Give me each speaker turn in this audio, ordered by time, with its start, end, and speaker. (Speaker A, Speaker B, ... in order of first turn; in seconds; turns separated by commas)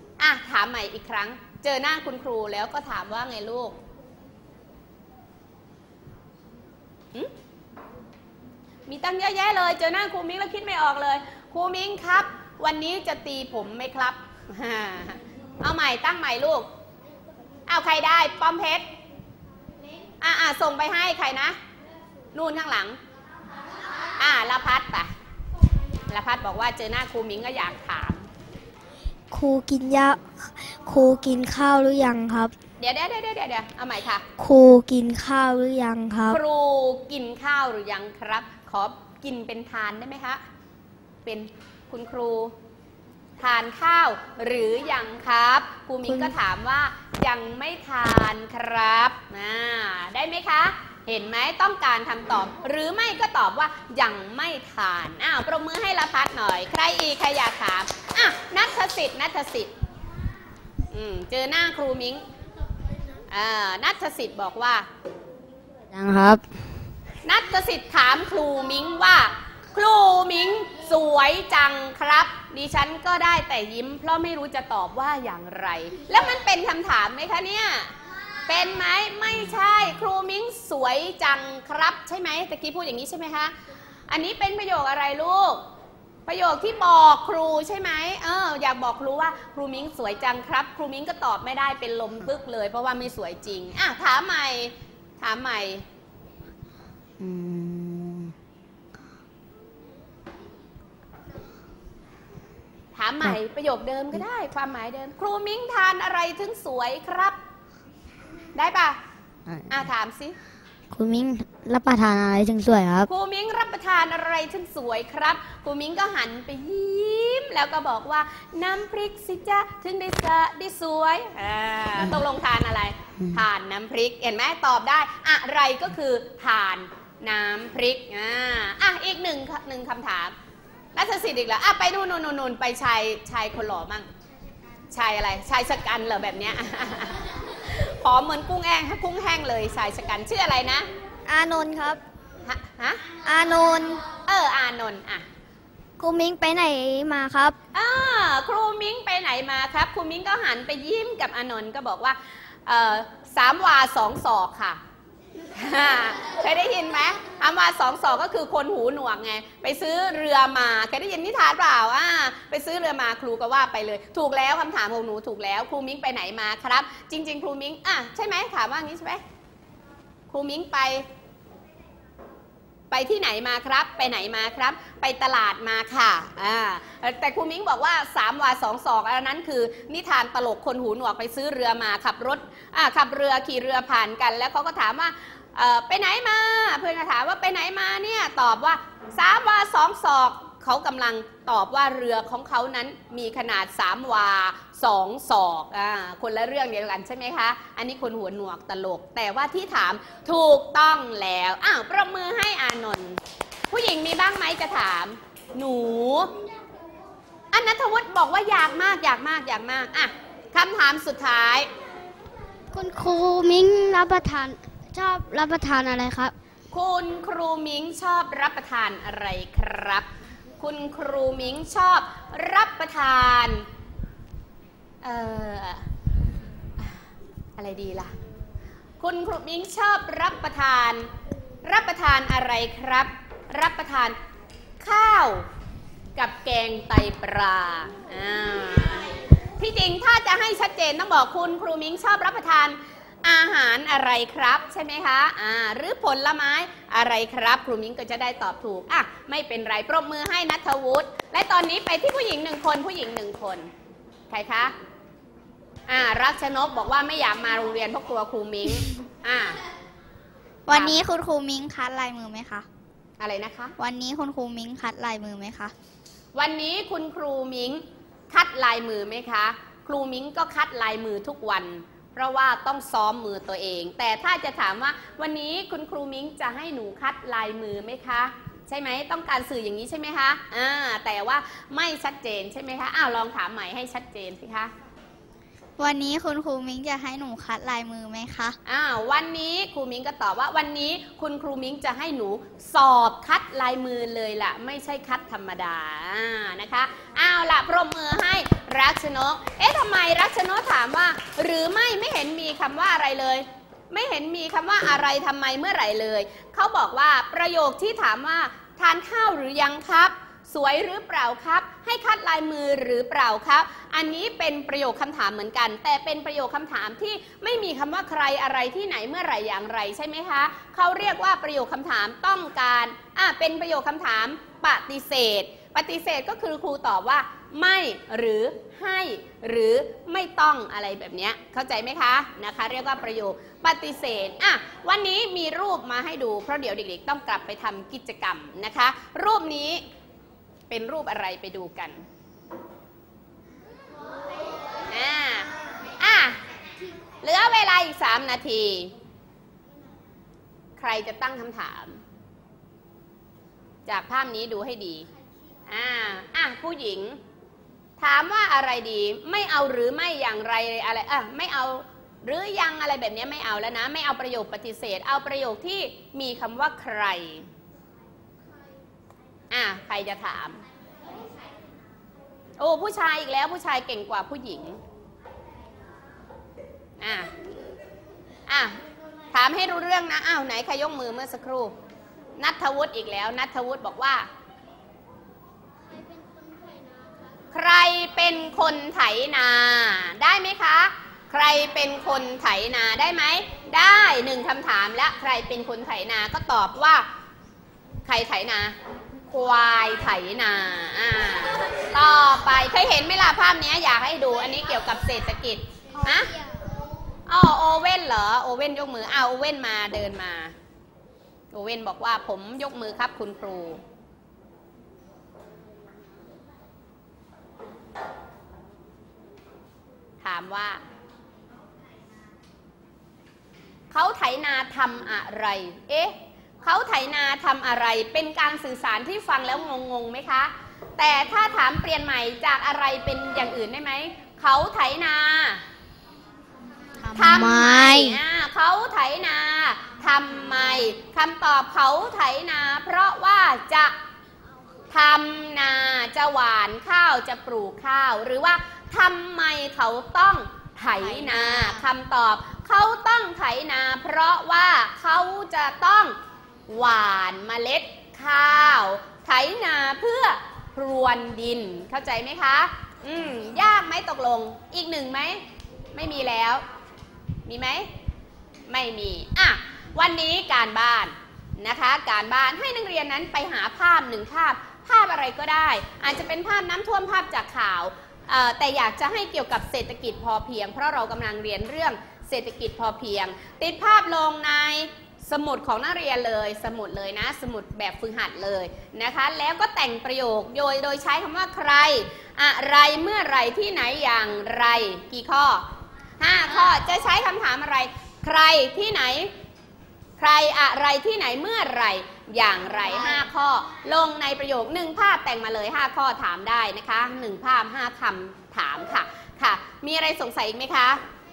Speaker A: 0.2-3.8, Speaker A: 8.9-16.7, Speaker A: 17.7-18.9, Speaker A: 20.2-21.6, Speaker A: 22.3-23.0, Speaker A: 24.2-25.1, Speaker A: 26.1-28.3, Speaker B: 29.3-32.5, Speaker A: 32.8-34.2, Speaker B: 34.4-36.4, Speaker A: 36.3-40.4, Speaker A: 41.2-42.5, Speaker A: 43.4-59.7, Speaker B: 46.0-46.3, Speaker A: 60.9-62.2, Speaker A: 63.3-64.9, Speaker B: 65.9-66.4, Speaker A: 67.2-77.9, Speaker A: 78.5-83.5, Speaker A: 84.1-85.6, Speaker A: 86.3-95.8, Speaker B: 97.2-98.3, Speaker A: 102.9-107.4, Speaker A: 108.5-109.0, Speaker A: 109.7-110.4, Speaker B: 110.9-113.1, Speaker A: 113.1-130.3, Speaker A: 130.9-134.1, Speaker A: 134.9-140.9, Speaker B: 141.3-142.0, Speaker A: 142.4-143.1, Speaker B: 143.2-144.0, Speaker A: 144.2-145.2, Speaker B: 146.0-147.6, Speaker A: 147.7-154.8, Speaker A: 155.5-169.2, Speaker A: 170.3-171.1, Speaker A: 172.9-206.3, Speaker A: 207.5-211.7, Speaker B: 212.7-216.3, Speaker A: 216.7-220.1, Speaker A: 220.6-223.7, Speaker A: 225.0-225.9, Speaker A: 227.6-228.1, Speaker A: 229.0-231.1, Speaker A: 231.6-234.2, Speaker A: 234.8-235.5, Speaker A: 236.2-253.7, Speaker A: 254.3-254.7, Speaker A: 255.9-259.6, Speaker C: 260.7-262.6, Speaker A: 260.7-261.0, Speaker A: 263.2-263.8, Speaker C: 263.8-265.7, Speaker A: 266.4-284.7, Speaker C: 285.8-288.6, Speaker A: 288.6-339.8, Speaker A: 340.7-342.0, Speaker A: 344.9-346.4, Speaker A: 347.2-348.9, Speaker A: 350.8-352.0, Speaker A: 353.9-355.1, Speaker A: 355.7-357.2, Speaker A: 358.0-367.5, Speaker A: 369.5-370.6, Speaker A: 372.6-374.8, Speaker A: 377.0-377.3, Speaker A: 378.5-378.8, Speaker A: 379.3-381.7, Speaker A: 382.4-384.3, Speaker A: 387.5-397.1, Speaker A: 398.1-398.8, Speaker A: 399.3-406.4, Speaker A: 407.3-410.5, Speaker A: 411.5-413.8, Speaker A: 420.2-420.8, Speaker A: 423.9-435.6, Speaker A: 437.1-443.9, Speaker A: 444.9-456.1, Speaker C: 451.0-451.9, Speaker A: 456.7-465.4, Speaker A: 465.9-466.6, Speaker A: 467.5-467.9, Speaker A: 468.7-495.6, Speaker A: 496.2-499.3, Speaker A: 500.2-511.0